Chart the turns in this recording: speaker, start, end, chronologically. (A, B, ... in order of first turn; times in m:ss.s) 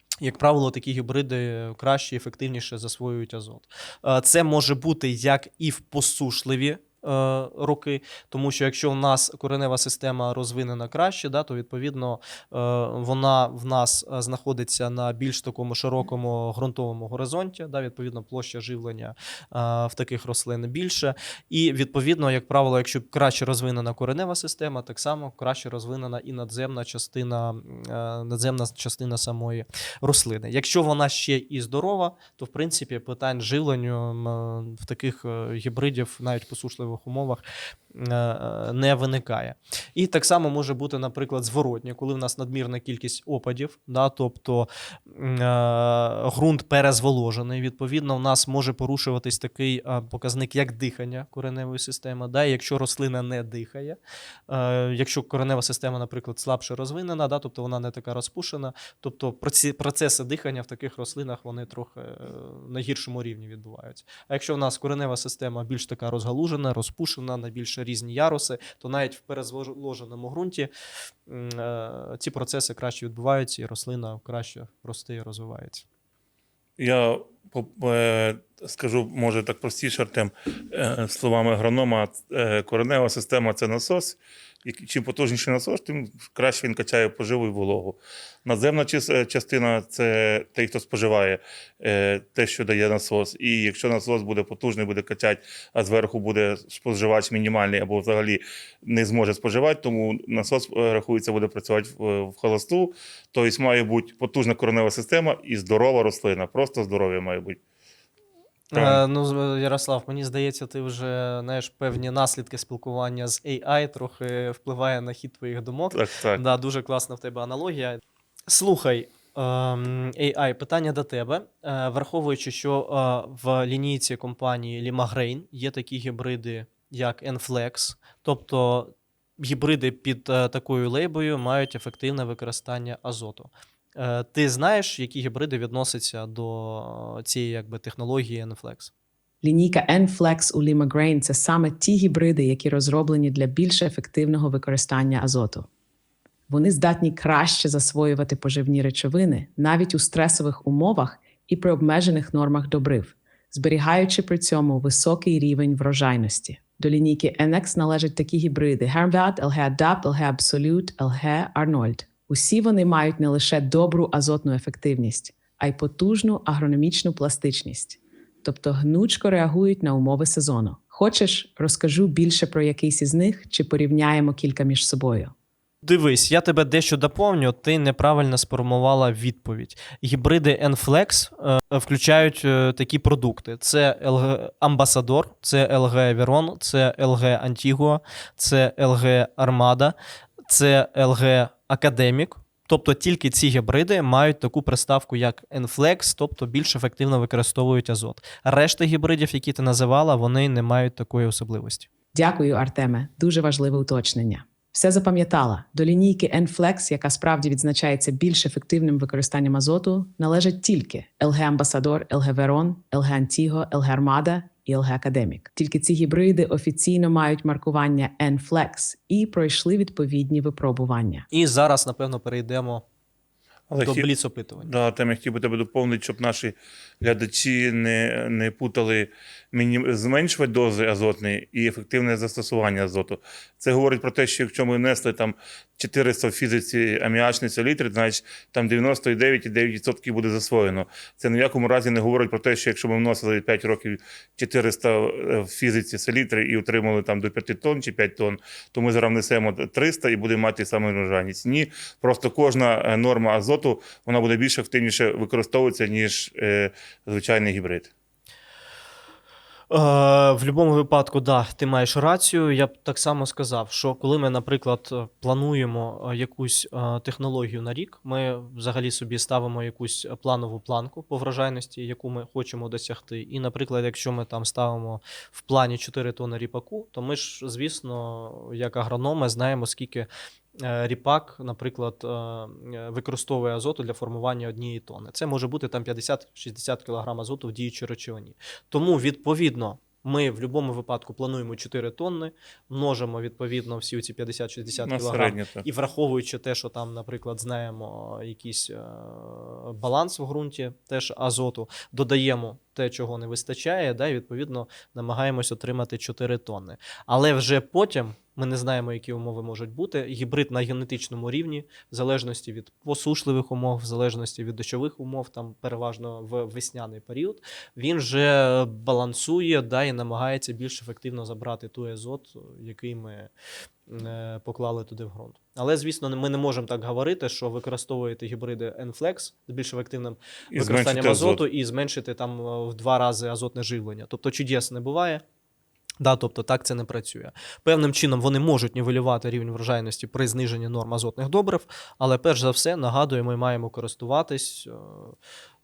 0:00.2-1:10.7 A
1:11.3-1:15.8 A
1:16.8-1:47.6 B
1:48.7-2:18.9 A
1:48.7-1:49.0 B
1:55.9-1:56.4 B
2:19.4-2:25.7 C
2:26.5-2:55.3 C
2:55.8-3:10.0 A
3:10.5-3:21.9 A
3:22.1-3:41.3 C
3:41.3-3:42.8 A
3:43.7-3:44.1 B
3:43.8-3:44.7 A
3:44.6-4:17.9 B
4:19.7-4:40.1 A
4:40.6-5:23.3 A
4:54.8-4:55.6 B
5:23.9-5:35.2 A
5:30.5-5:31.4 B
5:36.0-5:45.2 A